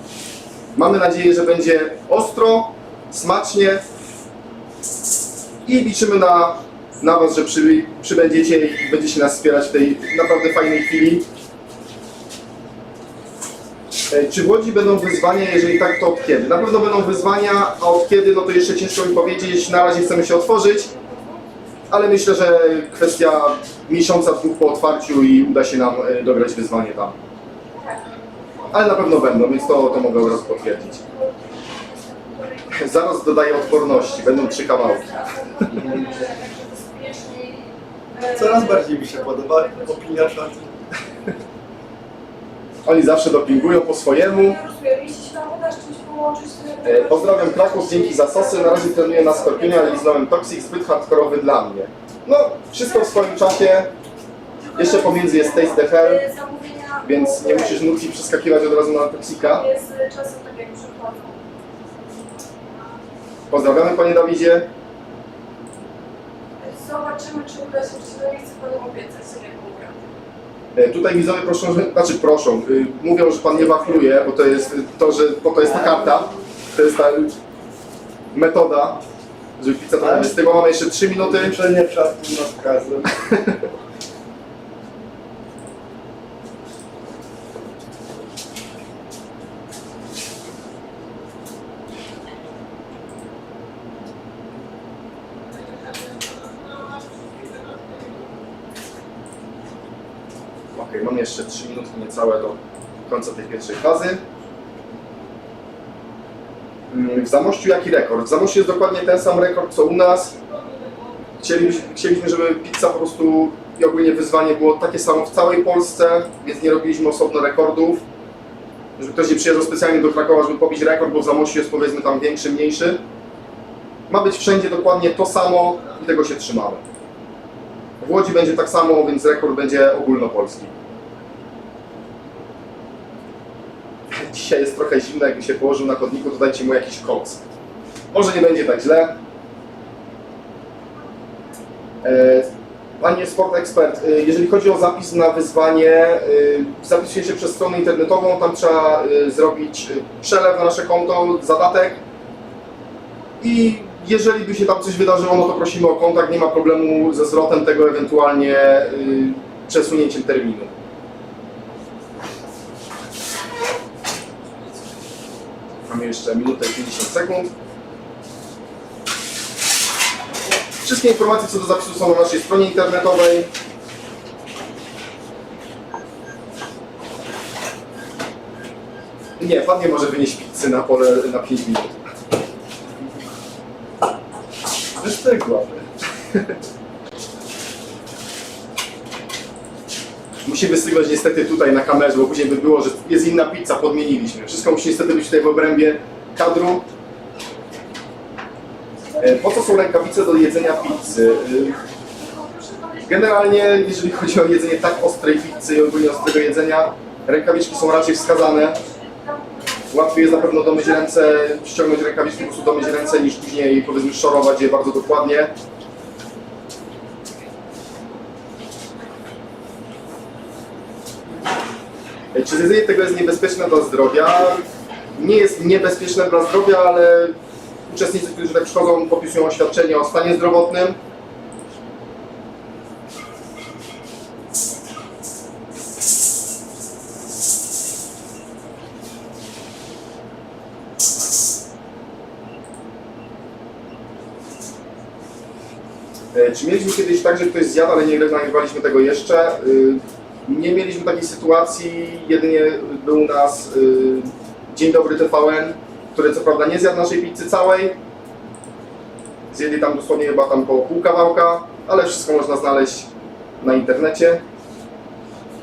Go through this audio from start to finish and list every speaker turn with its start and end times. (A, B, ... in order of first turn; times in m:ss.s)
0:00.7-0:03.8 A
0:05.6-0:11.3 A
0:14.1-0:20.9 A
0:21.9-0:27.2 A
0:28.7-0:31.0 A
0:29.8-0:32.9 B
0:32.7-0:36.0 A
0:33.7-0:40.0 B
0:38.3-0:40.8 C
0:42.8-0:44.6 A
0:44.4-0:49.9 B
0:46.8-0:53.9 A
0:54.7-0:57.8 B
0:54.8-0:56.2 A
0:57.0-0:59.7 A
0:59.5-1:01.4 B
1:03.5-1:04.7 A
1:06.6-1:10.0 B
1:10.7-1:17.4 A
1:18.3-1:19.0 A
1:19.6-1:21.6 A
1:20.0-1:20.3 C
1:21.2-1:23.2 C
1:40.7-1:44.2 A
1:46.9-1:50.3 A
1:51.4-1:58.0 A
1:59.0-2:03.0 A
2:04.1-2:06.8 A
2:08.0-2:10.7 A
2:14.1-2:17.4 A
2:18.1-2:19.2 A
2:22.0-2:22.5 A
2:23.0-2:32.0 A
2:33.4-2:40.7 A
2:45.9-2:47.5 A
2:50.8-2:53.5 A
2:59.4-3:01.9 A
3:05.0-3:05.9 C
3:10.4-3:16.8 A
3:19.2-3:21.8 A
3:22.2-3:23.8 B
3:23.0-3:28.8 A
3:28.1-3:31.0 B
3:29.9-3:35.5 A
3:42.3-3:44.6 A
3:45.2-3:47.4 A
3:47.9-3:51.0 A
4:06.3-4:18.0 A
4:19.5-4:23.1 A
4:23.6-4:24.4 A